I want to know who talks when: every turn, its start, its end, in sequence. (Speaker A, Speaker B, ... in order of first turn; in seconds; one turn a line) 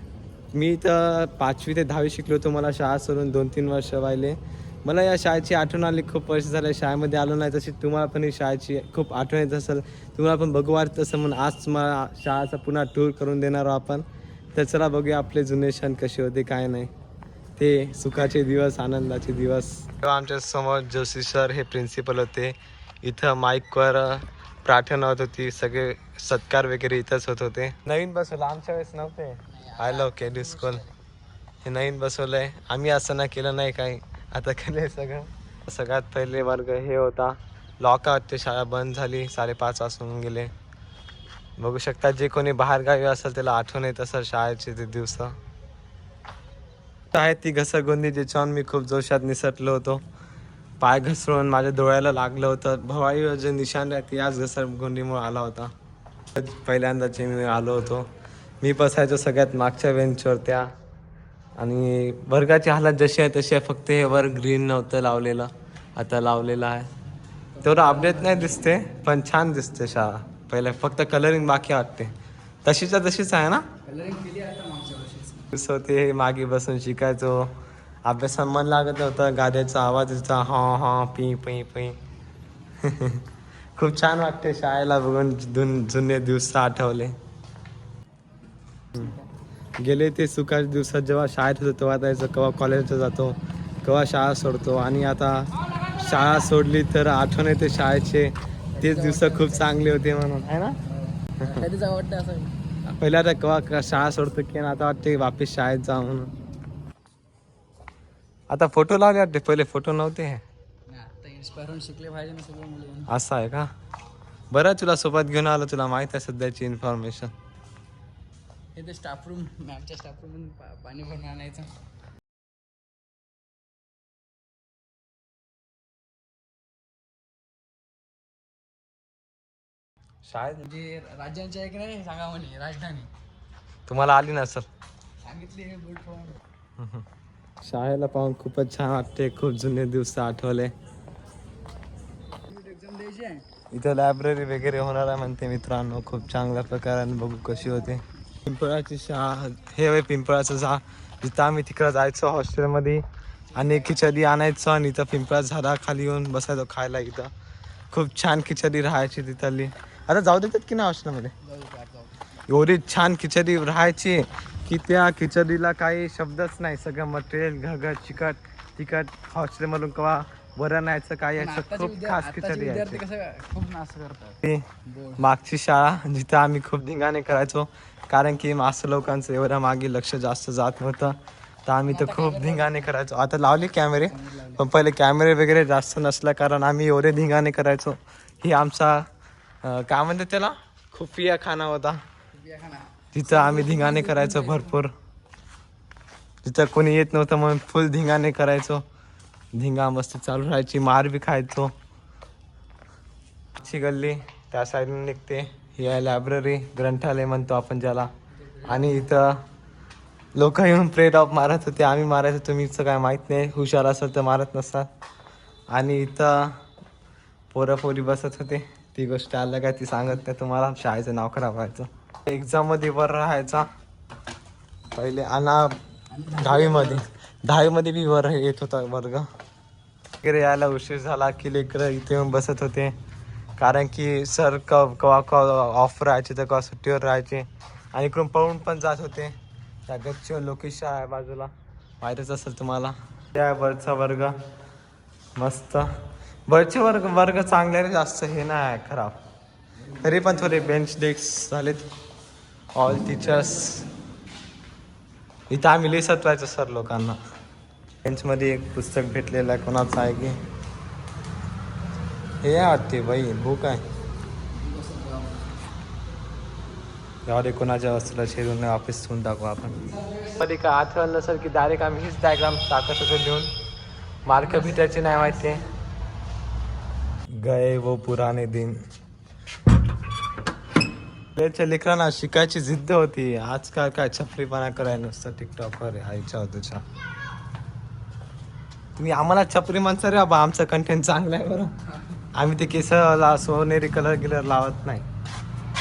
Speaker A: 0.5-16.9
Speaker A: 17.6-30.8
Speaker B: 29.5-31.0
Speaker A: 31.6-40.5
Speaker A: 41.6-45.4
Speaker A: 47.1-50.0
Speaker A: 50.8-55.7
Speaker A: 56.3-58.1
Speaker A: 58.6-60.7
Speaker A: 61.6-66.9
Speaker B: 67.5-68.8
Speaker A: 67.6-72.1
Speaker A: 72.6-73.7
Speaker B: 73.8-75.5
Speaker A: 75.5-77.5
Speaker A: 78.0-82.0
Speaker A: 82.8-87.1
Speaker B: 88.9-89.3
Speaker A: 89.8-100.8
Speaker B: 98.7-99.9
Speaker B: 100.8-102.5
Speaker A: 102.9-106.3
Speaker A: 108.5-110.4
Speaker B: 110.9-113.1
Speaker A: 113.1-113.7
Speaker A: 114.5-117.3
Speaker B: 118.7-121.7
Speaker A: 130.2-130.6
Speaker B: 130.5-133.1
Speaker A: 133.9-134.7
Speaker B: 135.2-136.4
Speaker A: 136.8-137.0
Speaker A: 137.6-140.7
Speaker B: 142.4-143.5
Speaker A: 143.7-157.3
Speaker B: 153.5-154.0
Speaker A: 157.9-161.3
Speaker B: 161.4-162.2
Speaker A: 162.5-173.0
Speaker B: 171.4-175.3
Speaker A: 175.2-189.1
Speaker B: 181.8-182.9
Speaker B: 184.0-184.7
Speaker A: 189.6-192.0
Speaker B: 192.3-194.8
Speaker A: 193.1-194.9
Speaker A: 196.4-198.8
Speaker A: 199.5-201.7
Speaker A: 203.6-208.1
Speaker B: 208.4-209.1
Speaker A: 208.6-209.4
Speaker A: 210.3-214.9
Speaker A: 215.7-216.6
Speaker A: 217.5-223.7
Speaker A: 224.9-229.3
Speaker B: 226.1-227.0
Speaker A: 230.2-232.9
Speaker A: 233.6-244.3
Speaker A: 245.3-245.9
Speaker A: 246.5-249.2
Speaker B: 249.9-250.7
Speaker A: 250.0-251.9
Speaker A: 252.7-253.9
Speaker A: 255.5-257.2
Speaker A: 258.0-260.4
Speaker A: 262.4-263.8
Speaker B: 264.5-265.6
Speaker A: 267.2-269.8
Speaker B: 269.8-270.4
Speaker A: 270.4-273.5
Speaker A: 274.2-275.6
Speaker B: 274.3-275.6
Speaker A: 277.4-278.8
Speaker A: 281.3-286.8
Speaker A: 288.9-291.7
Speaker A: 292.3-295.1